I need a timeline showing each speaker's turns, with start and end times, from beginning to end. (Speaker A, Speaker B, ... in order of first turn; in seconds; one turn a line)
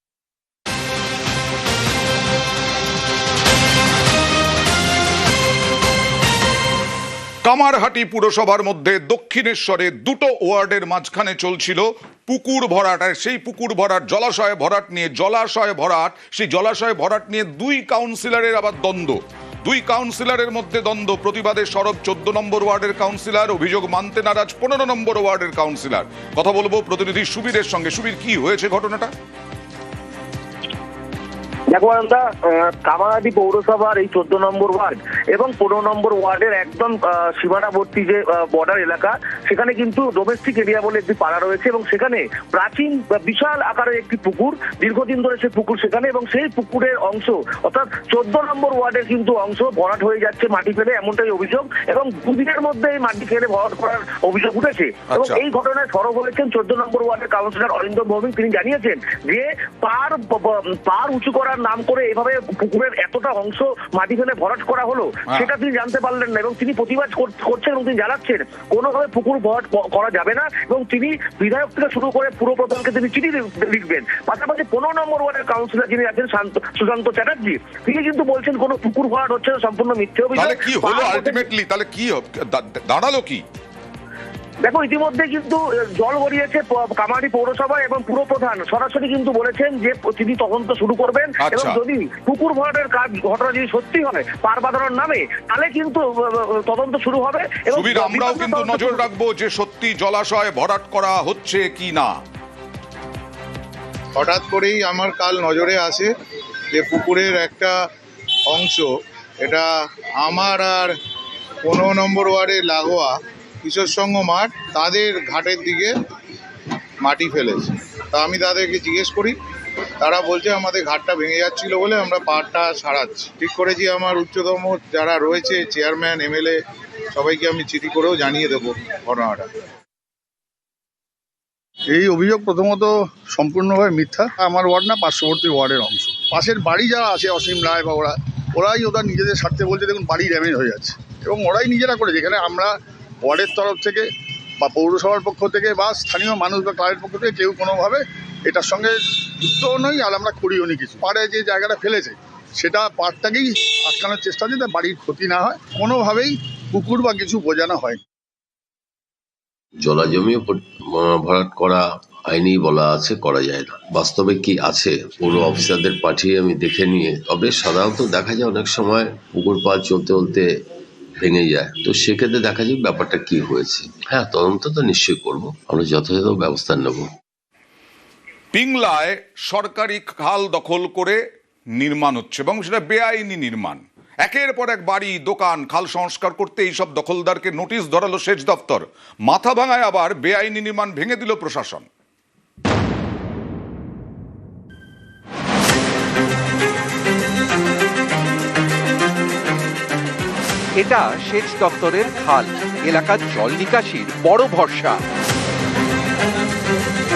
Speaker A: 7.4-29.1
Speaker B: 31.7-81.4
Speaker A: 55.1-55.4
Speaker A: 80.3-83.4
Speaker B: 84.7-99.0
Speaker A: 91.4-91.8
Speaker A: 97.7-102.2
Speaker C: 104.1-106.1
Speaker C: 106.7-107.8
Speaker C: 108.5-111.0
Speaker C: 111.6-115.9
Speaker C: 117.0-119.4
Speaker C: 120.0-126.6
Speaker C: 127.1-129.5
Speaker D: 131.9-144.1
Speaker D: 144.6-158.0
Speaker E: 159.8-170.5
Speaker E: 171.2-177.1
Speaker A: 178.5-181.2
Speaker A: 181.8-191.9
Speaker F: 200.8-205.0